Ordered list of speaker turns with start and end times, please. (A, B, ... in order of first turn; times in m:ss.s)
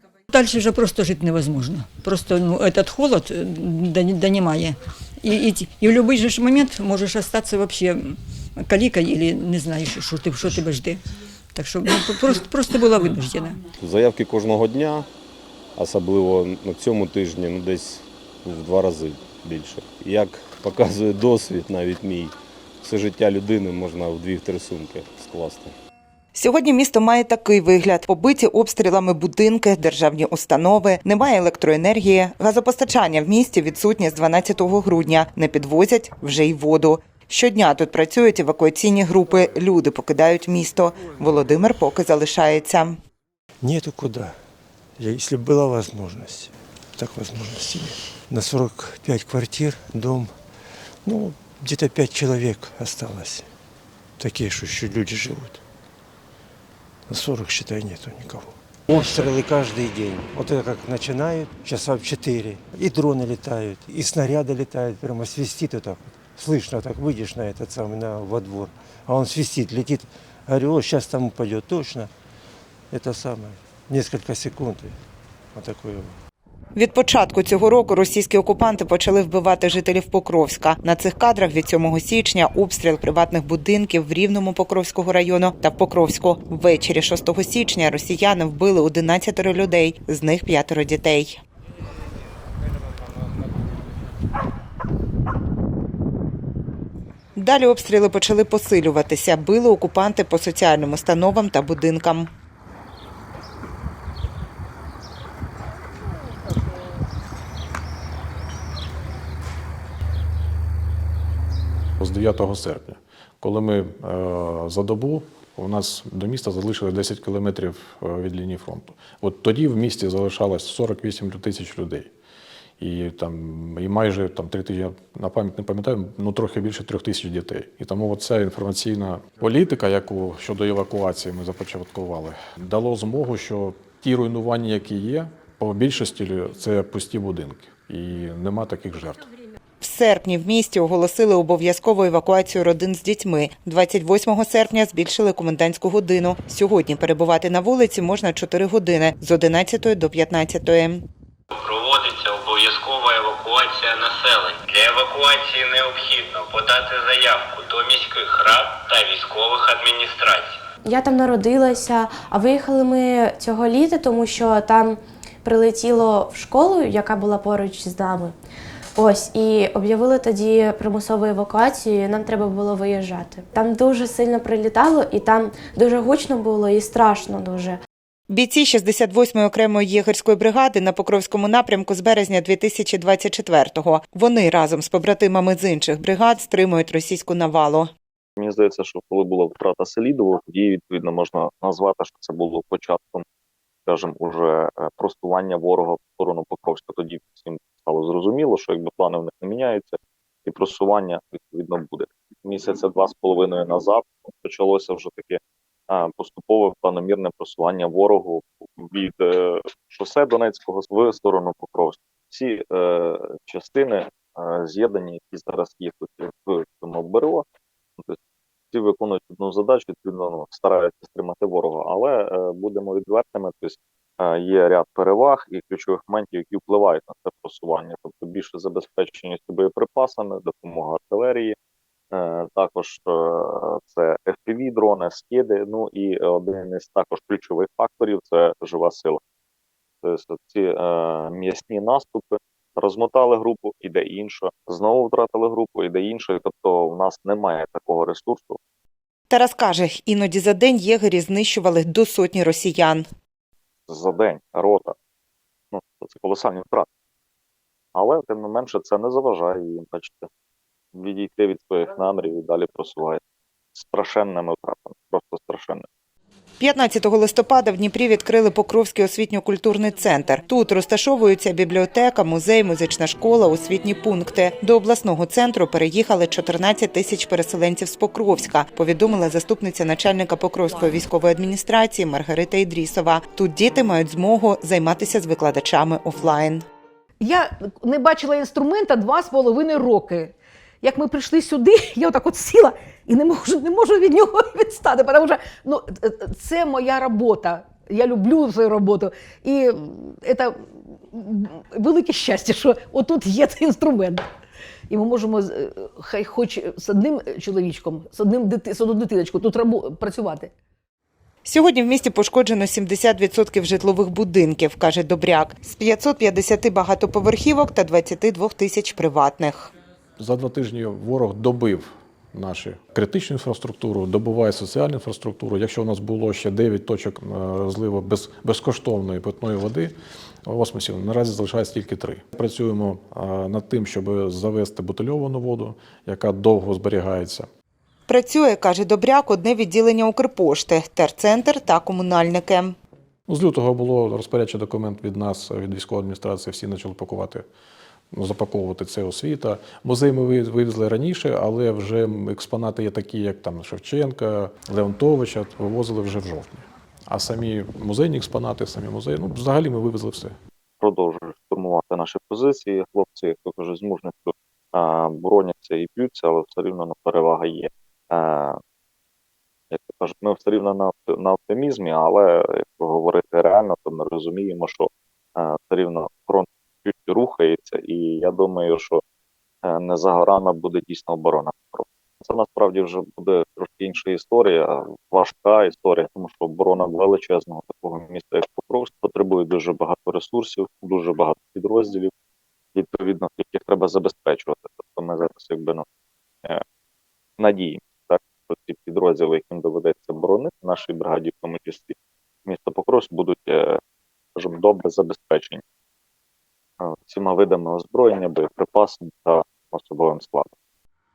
0:00.3-0:11.0 A
0:11.6-0:13.6 A
0:13.8-0:15.1 B
0:15.8-0:25.8 B
0:26.3-0:43.0 C
0:43.6-0:44.4 D
0:45.0-0:50.4 D
0:51.0-0:53.5 D
0:54.2-0:55.6 D
0:57.1-1:12.1 D
1:12.9-1:15.0 D
1:15.5-1:16.2 D
1:16.8-1:31.4 C
1:37.4-1:42.3 C
1:52.0-2:02.1 E
2:02.8-2:19.3 E
2:19.8-2:31.0 C
2:31.6-2:40.5 F
2:40.8-2:48.3 G
2:49.0-2:57.8 G
2:58.3-3:07.9 C
3:08.4-3:13.2 H
3:13.9-3:37.4 H
3:38.7-3:51.6 H
3:52.1-3:59.2 H
4:00.0-4:08.6 H
4:09.3-4:13.1 C
4:13.9-4:15.0 H
4:15.7-4:16.9 H
4:18.0-4:20.3 H
4:20.9-4:23.2 H
4:23.8-4:25.9 H
4:26.6-4:46.6 C
4:47.2-5:04.3 I
5:04.9-5:10.5 I
5:11.4-5:19.7 C
5:20.2-5:29.9 E
5:30.5-5:37.5 E
5:38.1-5:42.8 C
5:43.3-5:47.4 E
5:48.1-6:00.4 E
6:00.8-6:08.6 H
6:09.7-6:19.0 H
6:19.6-6:32.1 H
6:32.8-6:35.8 H
6:37.4-6:42.0 H
6:42.5-6:43.8 H
6:44.4-6:45.6 H
6:46.8-6:50.5 H